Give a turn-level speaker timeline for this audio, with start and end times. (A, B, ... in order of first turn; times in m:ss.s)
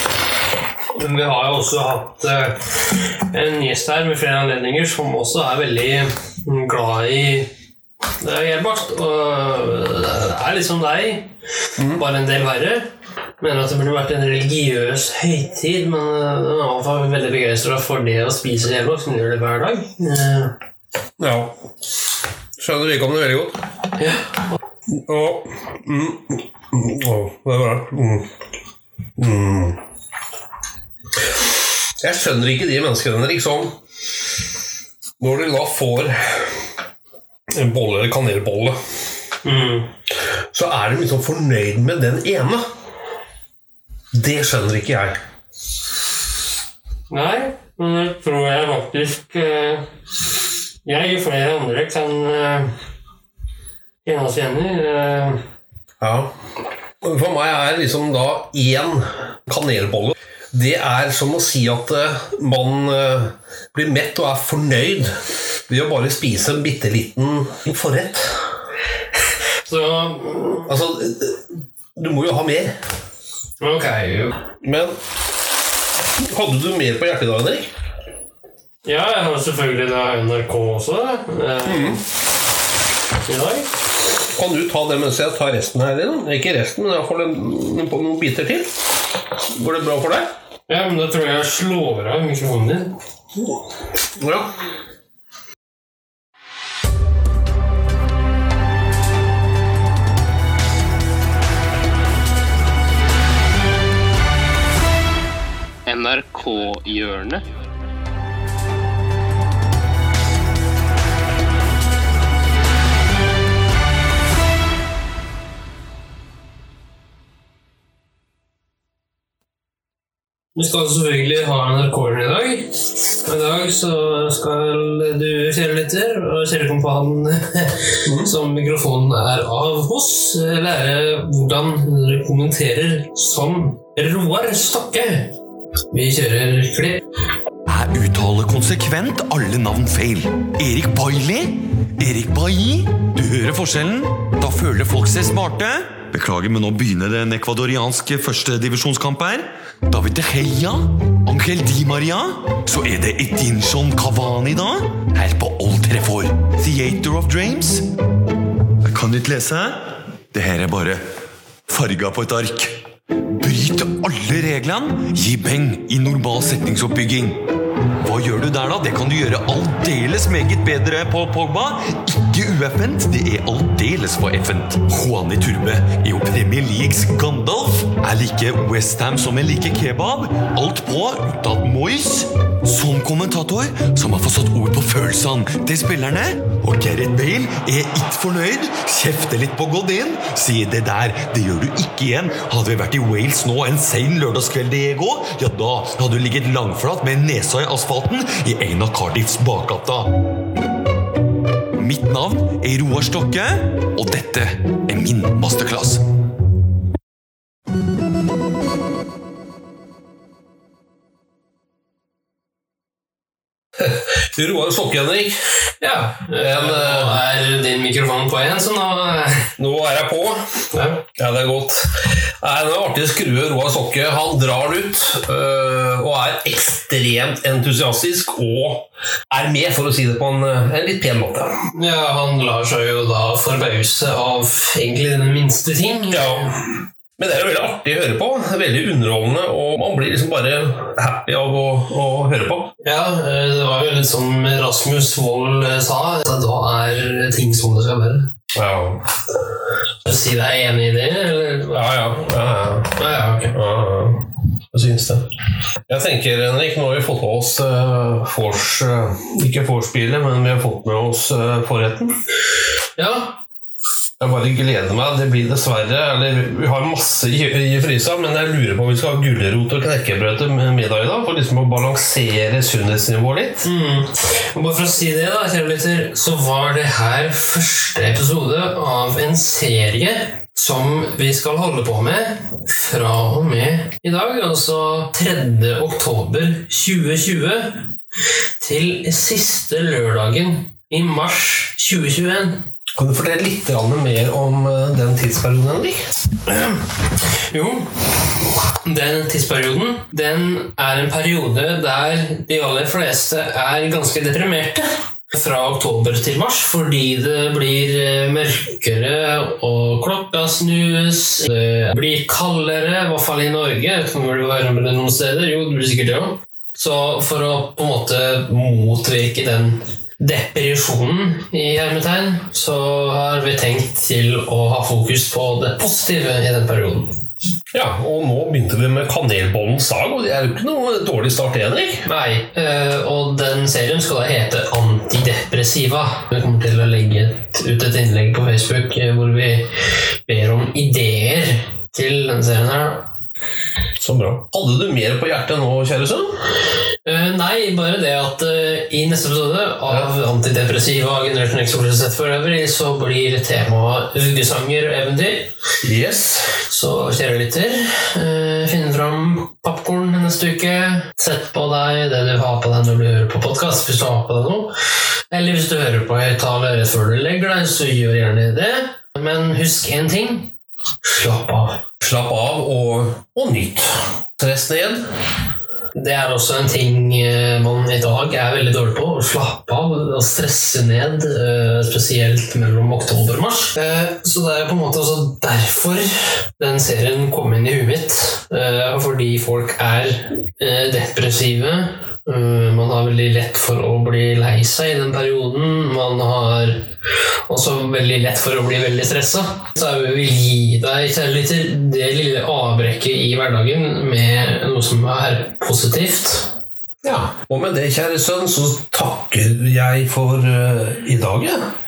0:00.9-0:07.5 A
0:08.2-0:11.3 A
0:11.9-0:12.9 A
0:13.4-0:20.5 A
0:21.2-0:21.6 B
0:22.6-0:23.6 B
0:25.1-0:28.2 B
0:29.2-0:29.8 B
0:32.0-0:33.7 B
0:35.2-0:36.5 B
0:37.6-0:38.8 B
0:39.4-0:39.9 A
0:40.5-0:42.6 B
0:44.1-0:45.2 B
0:47.1-0:49.8 A
0:50.8-0:52.7 A
0:54.0-0:55.4 A
0:56.0-0:56.3 B
0:57.0-1:05.1 B
1:05.7-1:08.4 B
1:09.6-1:10.7 A
1:10.7-1:11.4 B
1:12.0-1:12.7 B
1:13.6-1:14.3 A
1:14.6-1:14.9 B
1:16.3-1:17.7 B
1:18.8-1:22.0 A
1:21.6-1:22.0 B
1:23.2-1:23.7 A
1:24.3-1:28.7 B
1:29.5-1:30.3 B
1:30.7-1:32.9 A
1:34.2-1:34.5 B
1:45.8-1:47.4 A
2:00.5-2:15.3 A
2:15.9-2:17.0 A
2:17.7-2:37.9 C
2:38.8-2:39.8 C
2:40.3-2:41.0 C
2:41.7-2:42.8 C
2:43.4-2:47.4 C
2:48.0-3:20.1 C
3:21.8-3:26.0 C
3:33.8-3:35.3 B
3:35.8-3:39.5 A
3:36.4-3:37.2 B
3:39.6-3:40.4 B
3:40.7-3:41.0 A
3:41.2-3:41.8 B
3:42.4-3:51.5 B
3:51.7-3:56.5 A
3:56.1-4:02.7 B
4:02.8-4:08.3 A
4:08.6-4:09.0 B
4:10.0-4:11.9 A
4:11.7-4:12.9 B
4:12.9-4:13.6 A
4:13.5-4:15.3 B
4:15.9-4:22.1 B
4:23.0-4:23.4 A
4:24.2-4:33.6 B
4:33.6-4:47.9 A
4:48.6-4:52.6 A
4:53.0-4:56.0 B
4:56.5-4:56.8 A
4:57.5-4:57.9 A
4:58.8-5:27.1 A
5:27.7-5:32.0 B
5:32.0-5:39.7 A
5:40.2-5:43.1 A
5:44.0-5:46.4 B
5:47.0-5:55.5 A
5:55.8-5:56.5 B
5:56.6-6:04.7 A
6:05.3-6:10.5 A
6:11.0-6:11.8 A
6:12.0-6:15.0 B
6:15.9-6:36.8 A
6:37.5-6:46.5 A
6:47.0-6:51.7 B